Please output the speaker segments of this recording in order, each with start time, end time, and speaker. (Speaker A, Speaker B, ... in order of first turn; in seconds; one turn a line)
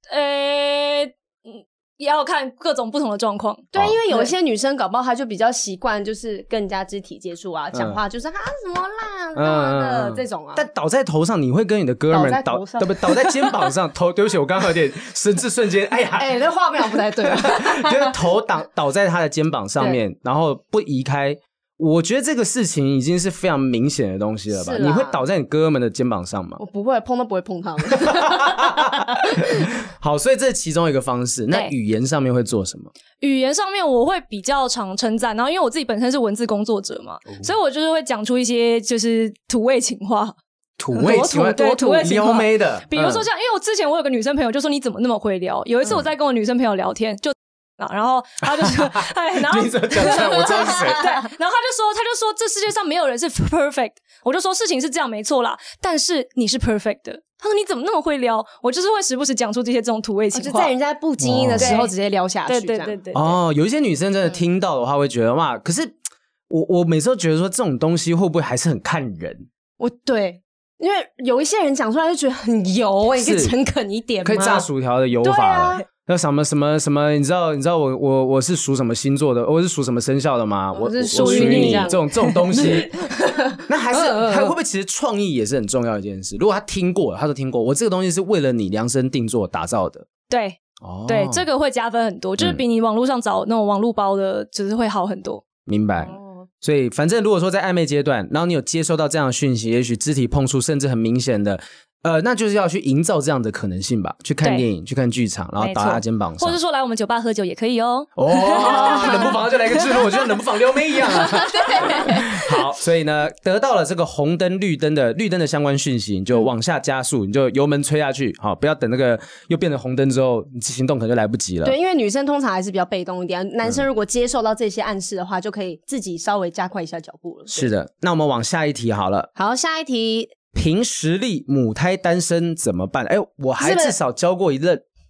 Speaker A: 0.1-4.3
Speaker B: 3.7-10.6
Speaker C: 7.7-8.0
Speaker C: 9.3-16.4
Speaker B: 12.1-13.7
Speaker B: 16.2-18.1
Speaker C: 17.2-26.6
Speaker B: 24.5-25.2
Speaker B: 26.6-29.5
Speaker C: 27.9-32.9
Speaker A: 33.2-40.4
Speaker C: 40.8-43.3
Speaker A: 41.0-60.7
Speaker C: 48.6-51.0
Speaker B: 50.3-51.2
Speaker B: 60.3-63.0
Speaker C: 61.2-61.8
Speaker A: 61.6-61.9
Speaker A: 62.5-63.4
Speaker C: 63.1-65.9
Speaker C: 66.5-69.5
Speaker B: 69.8-74.7
Speaker C: 73.2-73.5
Speaker C: 74.2-83.0
Speaker B: 75.2-75.8
Speaker B: 80.8-84.5
Speaker A: 81.1-82.0
Speaker C: 83.7-90.1
Speaker A: 90.3-95.5
Speaker C: 90.8-91.5
Speaker C: 95.7-106.6
Speaker B: 96.0-96.4
Speaker A: 104.4-104.7
Speaker A: 105.6-109.4
Speaker C: 108.2-121.8
Speaker B: 108.6-109.3
Speaker B: 111.1-112.4
Speaker B: 121.6-127.7
Speaker C: 127.5-129.3
Speaker B: 129.4-130.3
Speaker C: 130.5-134.9
Speaker B: 133.6-134.0